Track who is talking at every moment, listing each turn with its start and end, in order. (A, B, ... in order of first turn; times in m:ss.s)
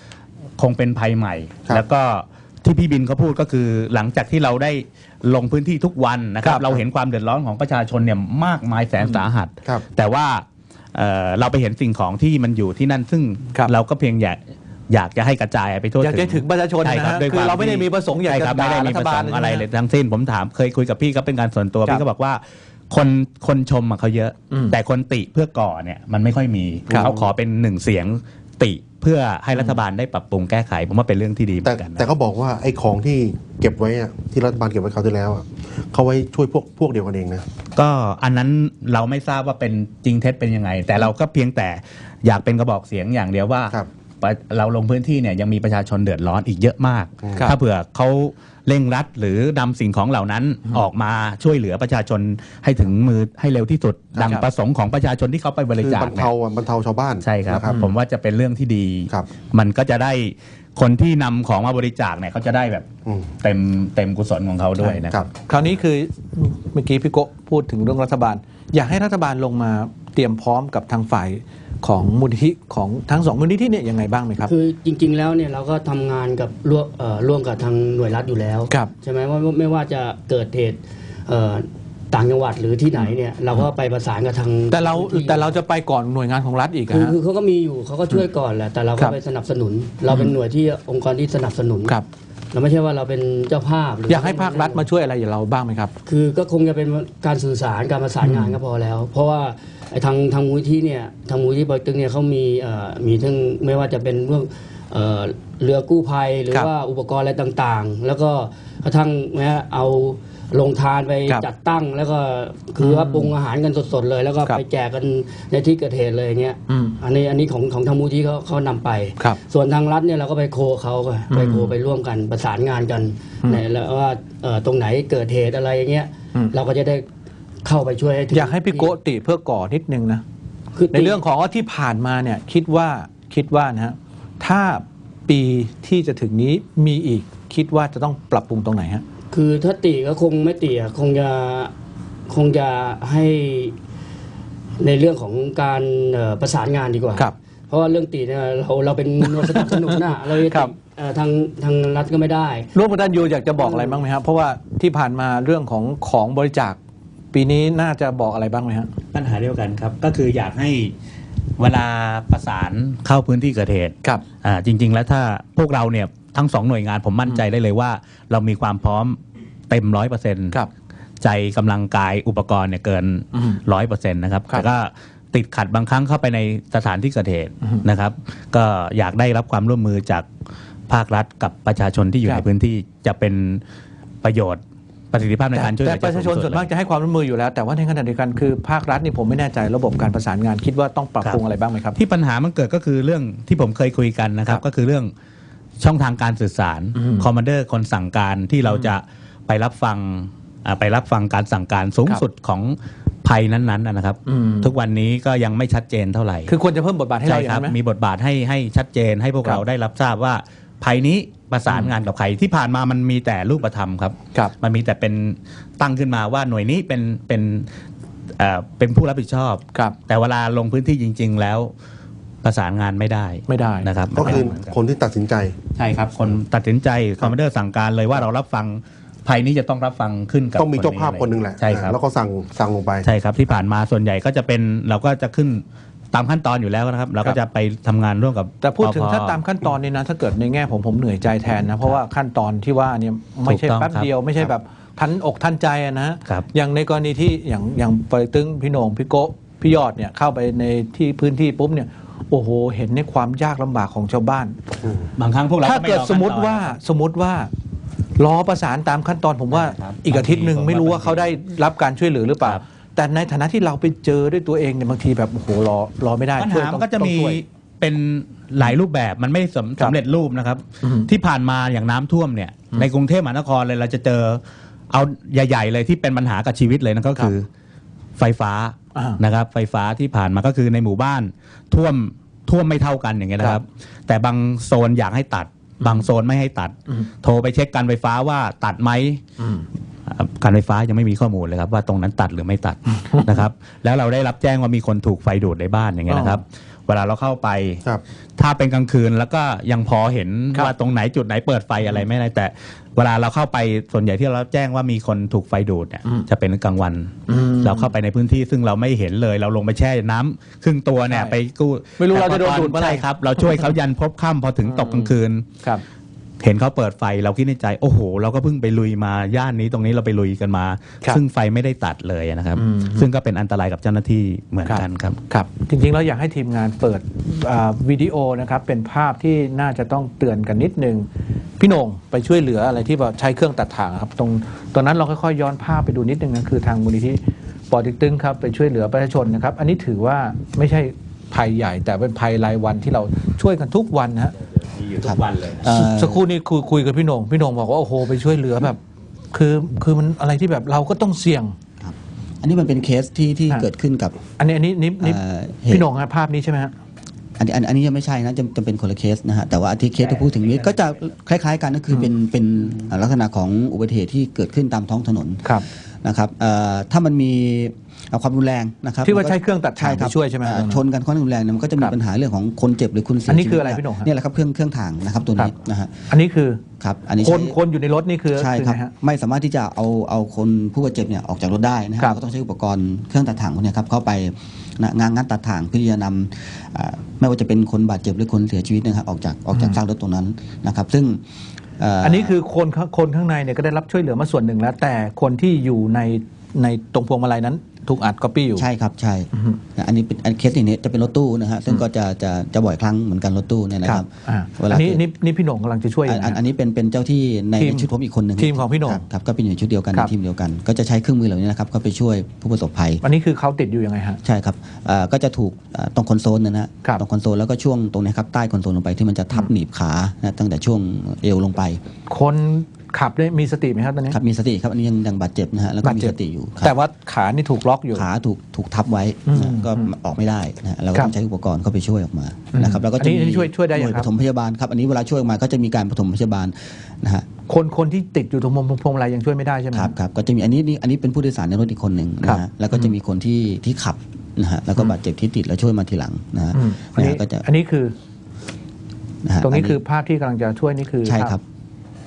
0:00.6-0:32.1 A
0:06.4-0:06.8 B
0:16.0-0:19.7 B
0:24.5-0:24.8 B
0:27.0-0:27.3 C
0:31.6-0:37.4 C
0:37.7-0:56.3 A
0:54.2-0:54.5 B
0:55.8-0:57.8 C
0:57.2-1:02.9 A
1:03.4-1:05.3 A
1:04.8-1:14.5 B
1:14.4-1:25.5 D
1:24.7-1:27.1 B
1:26.9-1:32.0 D
1:32.5-1:34.9 D
1:34.1-1:35.9 B
1:36.1-2:07.1 D
1:38.2-1:38.6 B
1:52.8-1:53.3 B
1:56.7-1:57.0 B
2:01.3-2:01.7 B
2:07.6-2:09.0 D
2:08.3-2:10.2 B
2:10.8-2:11.2 D
2:10.9-2:19.0 B
2:19.3-2:21.7 D
2:22.3-2:23.8 D
2:24.8-2:32.7 D
2:29.2-2:30.7 B
2:32.7-2:36.8 B
2:33.6-2:34.0 D
2:37.3-2:38.9 B
2:39.1-2:40.9 A
2:41.6-2:49.2 A
2:49.7-2:50.6 A
2:51.2-3:00.3 A
2:53.4-2:53.6 B
3:00.9-3:03.6 A
3:04.2-3:04.6 A
3:05.1-3:06.7 A
3:05.5-3:12.0 B
3:12.0-3:15.1 A
3:15.8-3:26.5 A
3:17.0-3:17.3 B
3:18.7-3:18.9 B
3:24.3-3:24.7 B
3:26.5-3:27.8 B
3:27.2-3:37.7 A
3:31.7-3:31.9 B
3:38.4-3:41.7 A
3:42.4-3:44.8 A
3:43.5-3:44.4 B
3:44.1-3:45.5 C
3:45.8-3:52.0 A
3:50.6-3:53.1 C
3:53.0-3:59.4 A
3:58.6-4:14.6 B
4:03.5-4:04.1 A
4:15.2-4:16.8 A
4:15.6-4:17.5 B
4:18.2-4:27.4 B
4:19.5-4:21.3 A
4:26.4-4:37.5 A
4:30.8-4:31.1 B
4:38.2-4:49.2 A
4:39.0-4:39.2 B
4:49.4-4:49.7 B
4:50.1-4:57.8 A
4:53.0-4:53.3 B
4:56.1-4:56.4 B
4:58.4-5:15.5 A
5:07.3-5:07.9 B
5:11.1-5:11.4 B
5:12.0-5:13.8 B
5:14.6-5:15.8 B
5:16.4-5:25.2 A
5:22.6-5:23.1 B
5:24.7-5:31.1 B
5:31.6-5:44.3 B
5:44.6-5:45.7 A
5:45.0-5:46.2 E
5:45.7-5:48.8 B
5:49.3-5:51.6 B
5:51.8-5:54.2 E
5:54.4-5:56.7 B
5:55.0-5:55.9 E
5:57.4-6:16.1 E
6:09.0-6:10.8 B
6:13.3-6:14.1 B
6:16.1-6:16.6 B
6:16.8-6:17.6 E
6:17.2-6:18.9 B
6:18.3-6:31.2 E
6:29.5-6:29.8 B
6:31.8-6:32.3 E
6:32.0-6:38.7 B
6:38.6-6:45.0 E
6:43.8-6:46.4 B
6:46.1-6:53.0 E
6:47.6-6:49.0 B
6:53.0-6:54.2 B
6:54.2-7:01.8 E
7:02.1-7:04.2 B
7:04.1-7:06.7 E
7:05.8-7:08.1 B
7:07.9-7:17.3 E
7:09.3-7:09.9 B
7:12.5-7:14.1 B
7:17.5-7:19.9 B
7:19.7-7:27.4 E
7:22.2-7:22.9 B
7:26.5-7:28.0 B
7:29.2-7:29.8 E
7:29.4-7:31.4 B
7:31.0-7:31.4 E